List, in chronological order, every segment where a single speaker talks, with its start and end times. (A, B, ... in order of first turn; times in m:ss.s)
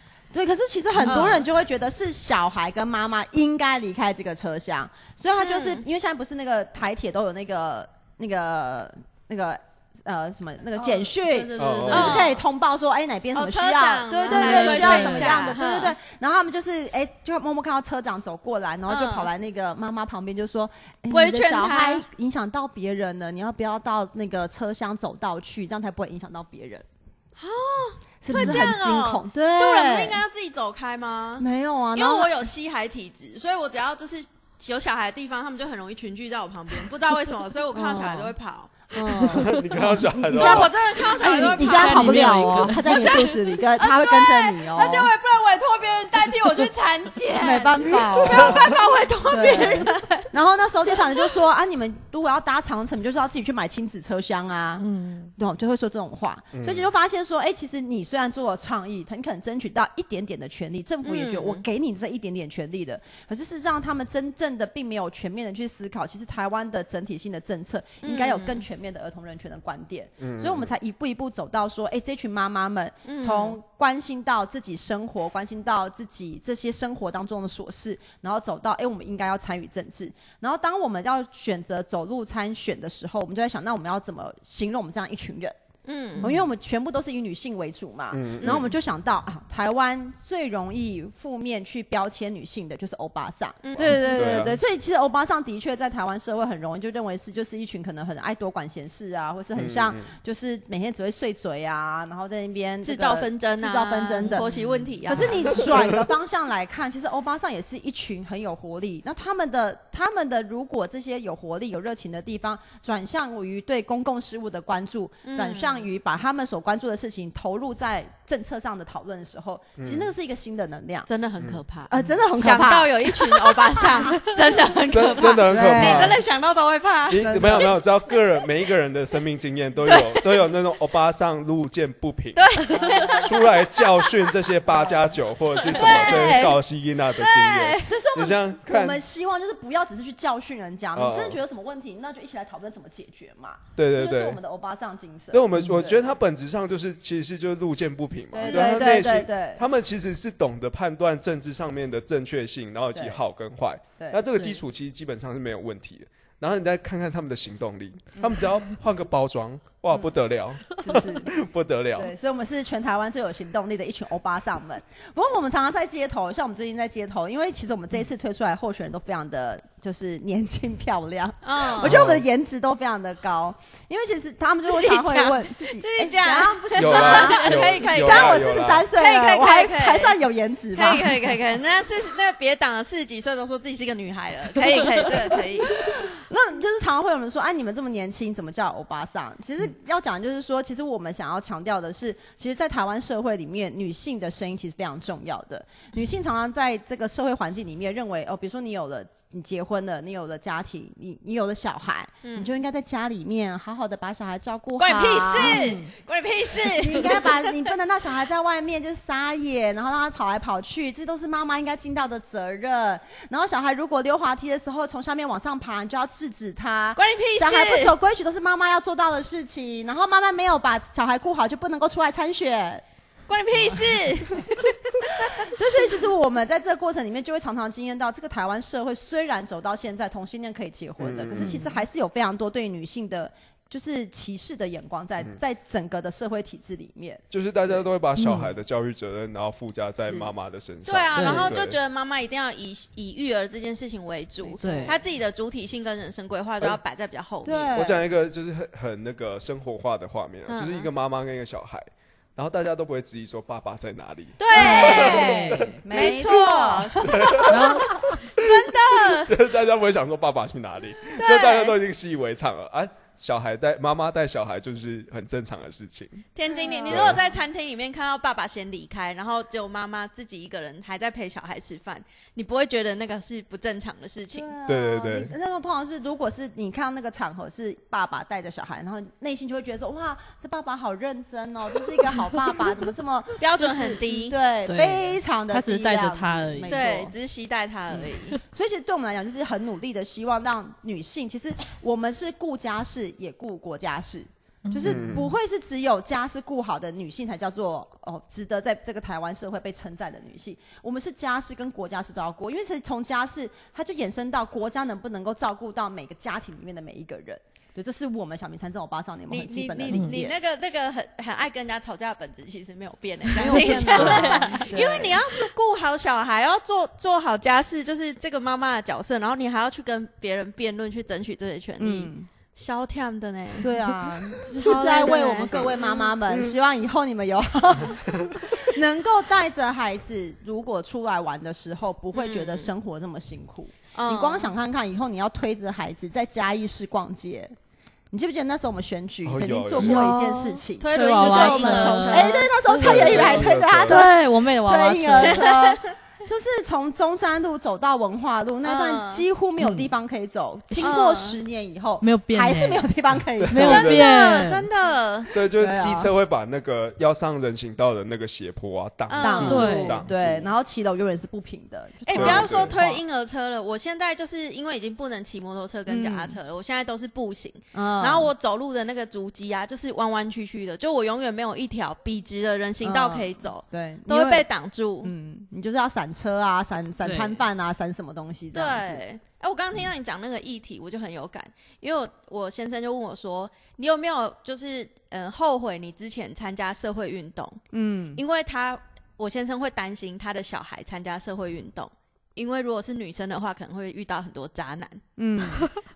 0:00.3-0:26.8 A
0:01.0-0:01.4 B
0:01.0-0:01.4 C
0:05.4-0:05.8 C
0:10.8-0:12.3 B
0:11.6-0:12.2 D
0:11.9-0:12.4 C
0:13.3-0:16.0 C
0:14.2-0:15.5 B
0:18.9-0:19.3 C
0:21.1-0:22.0 C
0:27.4-0:38.9 C
0:28.2-0:30.2 A
0:31.4-0:32.4 A
0:37.7-0:38.3 A
0:38.9-0:45.1 A
0:39.3-0:40.7 D
0:40.3-0:50.2 C
0:41.6-0:43.3 B
0:47.4-0:48.8 A
0:49.3-0:54.8 A
0:54.8-0:55.3 B
0:55.4-1:25.5 A
0:56.5-0:56.9 D
1:01.0-1:01.6 C
1:08.0-1:08.6 C
1:10.2-1:10.7 D
1:13.0-1:13.6 C
1:25.8-1:26.3 C
1:26.2-1:44.5 A
1:28.1-1:28.7 D
1:28.4-1:28.7 C
1:33.6-1:34.1 C
1:33.8-1:34.6 D
1:39.5-1:40.1 D
1:42.8-1:45.7 C
1:45.1-2:01.1 A
1:45.6-1:46.0 D
1:55.2-1:55.9 C
1:59.8-2:00.1 D
2:01.1-2:07.7 C
2:01.9-2:04.3 A
2:04.9-2:06.2 D
2:05.4-2:06.2 A
2:07.1-2:19.0 D
2:07.2-2:07.7 A
2:09.8-2:10.3 C
2:12.4-2:14.1 C
2:12.7-2:13.3 A
2:14.7-2:15.1 A
2:15.6-2:16.6 C
2:15.7-2:16.2 A
2:17.1-2:17.9 C
2:17.9-2:26.0 A
2:20.9-2:21.4 D
2:23.8-2:24.4 D
2:25.3-2:42.1 D
2:28.3-2:29.6 A
2:34.0-2:34.3 A
2:40.8-2:41.3 A
2:41.9-3:01.4 A
2:51.4-2:52.0 C
2:51.8-2:52.2 D
2:54.7-3:00.2 C
2:56.7-2:58.9 D
3:00.7-3:05.8 C
3:05.6-3:25.9 A
3:22.2-3:22.5 C
3:24.8-3:27.6 C
3:25.4-3:25.8 B
3:26.7-3:42.8 A
3:37.0-3:37.9 C
3:43.3-3:45.4 C
3:45.3-3:57.8 A
3:51.0-3:51.7 D
3:51.4-3:51.7 B
3:57.3-4:01.8 D
3:58.2-3:58.5 B
4:00.0-4:00.3 A
4:00.8-4:07.7 C
4:01.2-4:01.5 B
4:04.6-4:05.0 B
4:04.6-4:04.9 A
4:07.4-4:08.0 A
4:07.7-4:15.7 D
4:10.5-4:10.9 C
4:14.4-4:19.3 C
4:14.5-4:18.1 A
4:14.9-4:15.8 B
4:17.0-4:17.6 D
4:17.5-4:17.9 B
4:19.1-4:26.2 D
4:21.2-4:21.8 C
4:26.3-4:34.5 C
4:26.5-4:27.4 A
4:26.9-4:27.2 D
4:34.3-4:47.1 A
4:34.6-4:35.3 D
4:43.4-4:44.4 C
4:44.6-4:46.8 B
4:46.7-4:48.4 C
4:48.0-4:48.4 B
4:48.4-5:10.4 A
4:54.6-4:55.2 B
4:54.8-4:55.3 D
5:09.3-5:23.9 C
5:09.9-5:10.2 B
5:13.3-5:15.2 A
5:13.5-5:14.7 B
5:21.8-5:22.3 A
5:23.6-5:37.5 A
5:24.4-5:26.1 C
5:32.1-5:32.7 C
5:33.9-5:34.5 C
5:38.1-5:53.9 A
5:39.2-5:40.1 D
5:39.8-5:45.5 B
5:40.8-5:42.6 C
5:42.7-5:44.1 D
5:45.2-5:45.8 C
5:48.6-5:49.2 C
5:49.6-5:49.9 B
5:50.8-5:51.4 C
5:52.0-5:52.9 B
5:53.4-5:54.0 D
5:53.5-5:54.7 B
5:53.6-5:55.3 C
5:55.3-6:00.5 D
5:55.5-5:56.1 A
5:59.1-5:59.7 C
5:59.2-6:03.0 A
5:59.4-6:00.0 B
6:02.0-6:15.1 C
6:02.1-6:02.8 D
6:05.9-6:06.4 A
6:07.7-6:08.3 A
6:12.8-6:14.4 A
6:15.0-6:19.0 A
6:17.0-6:17.4 B
6:18.5-6:27.6 C
6:27.7-6:28.2 A
6:28.2-6:35.0 C
6:35.2-6:35.7 A